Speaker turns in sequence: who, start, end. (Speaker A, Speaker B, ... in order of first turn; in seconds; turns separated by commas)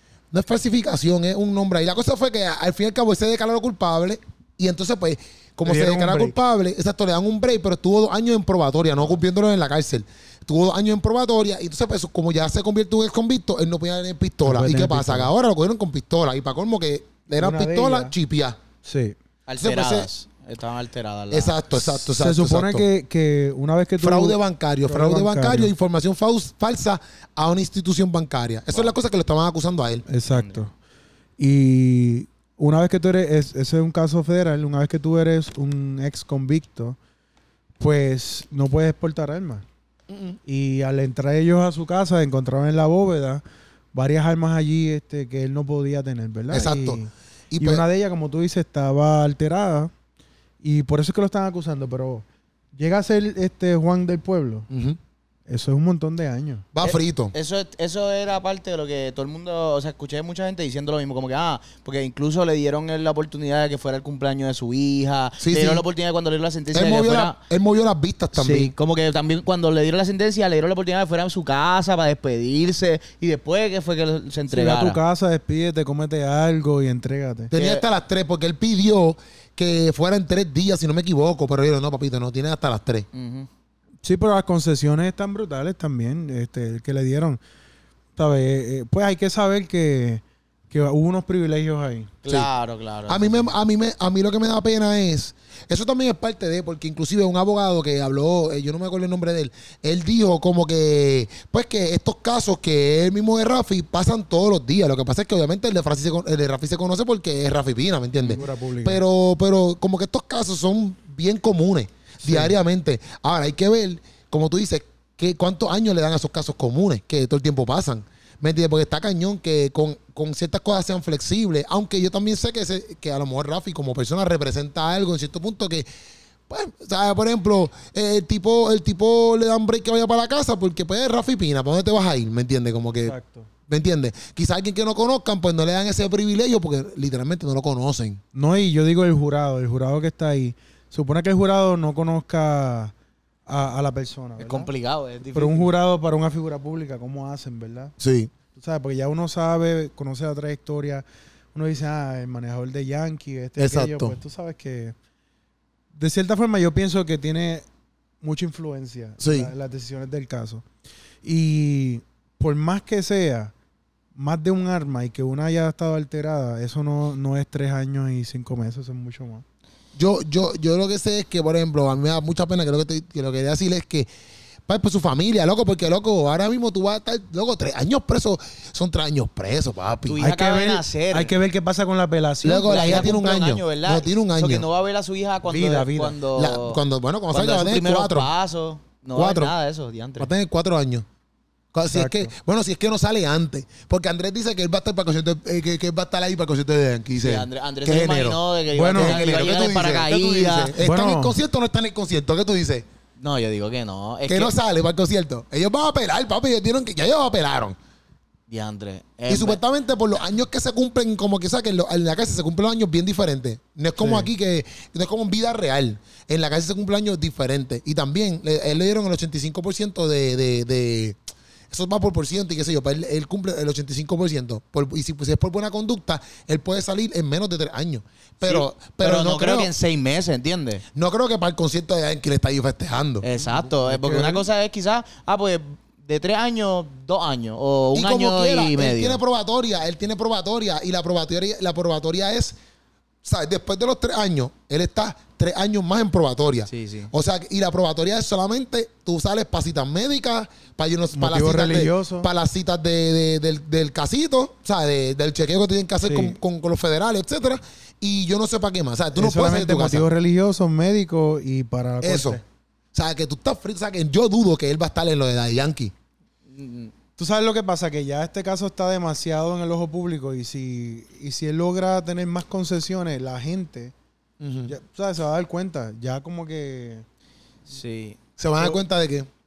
Speaker A: 0.3-18.6, Speaker B: 5.7-6.4, Speaker B: 14.4-15.3, Speaker B: 17.3-18.1, Speaker B: 18.9-19.2, Speaker C: 19.5-21.6, Speaker A: 19.6-20.1, Speaker A: 21.3-22.9, Speaker B: 21.9-25.7, Speaker A: 24.0-30.1, Speaker B: 30.1-30.7, Speaker C: 30.3-30.6, Speaker B: 31.4-37.0, Speaker B: 37.8-39.6, Speaker A: 40.1-40.4, Speaker B: 40.5-43.4, Speaker B: 43.9-49.9, Speaker A: 46.5-47.0, Speaker A: 47.5-47.8, Speaker B: 50.6-54.7, Speaker A: 54.7-55.0, Speaker B: 55.5-56.7, Speaker A: 56.8-57.3, Speaker C: 56.8-67.4, Speaker A: 65.4-65.8, Speaker A: 66.7-68.7, Speaker C: 68.3-75.0, Speaker B: 74.5-77.5, Speaker A: 77.5-83.1, Speaker C: 77.5-77.8, Speaker C: 83.1-83.5, Speaker B: 84.0-87.4, Speaker B: 88.2-92.1, Speaker C: 92.2-93.5, Speaker A: 93.1-125.9, Speaker B: 108.3-109.0, Speaker B: 112.2-112.5, Speaker A: 126.5-133.2, Speaker B: 133.1-133.5, Speaker A: 133.7-138.2, Speaker B: 138.3-142.9, Speaker B: 143.5-144.7, Speaker C: 144.4-145.7, Speaker B: 145.3-147.9, Speaker A: 148.0-148.3, Speaker B: 148.5-154.9, Speaker A: 153.6-154.2, Speaker B: 155.9-157.7, Speaker B: 158.2-160.6, Speaker A: 159.2-159.5, Speaker B: 161.2-163.5, Speaker B: 164.2-169.4, Speaker A: 169.9-174.1, Speaker A: 174.7-180.2, Speaker C: 180.1-181.3, Speaker B: 180.2-183.1, Speaker A: 182.4-184.7, Speaker C: 182.7-186.8, Speaker B: 185.4-186.2, Speaker A: 186.3-188.3, Speaker C: 187.3-190.3, Speaker A: 189.2-189.5, Speaker A: 190.2-191.1, Speaker A: 191.7-198.4, Speaker B: 191.9-192.3, Speaker C: 197.2-200.8, Speaker B: 198.7-199.2, Speaker A: 198.9-202.8, Speaker B: 200.8-201.4, Speaker C: 203.2-204.5, Speaker A: 204.3-207.8, Speaker C: 208.5-209.6, Speaker A: 209.3-221.2, Speaker B: 214.0-214.3, Speaker A: 221.7-229.7, Speaker C: 228.4-230.8, Speaker A: 230.9-233.3, Speaker C: 233.2-239.2, Speaker B: 233.4-234.5, Speaker A: 237.9-242.6, Speaker A: 243.2-260.1, Speaker C: 246.7-247.1, Speaker B: 251.1-252.3, Speaker B: 256.0-256.4, Speaker B: 259.1-262.4, Speaker A: 262.0-262.4, Speaker A: 262.9-265.9, Speaker C: 266.5-266.9, Speaker B: 267.2-273.9, Speaker A: 274.4-274.7, Speaker B: 274.7-277.0, Speaker C: 277.7-278.2, Speaker A: 278.4-279.3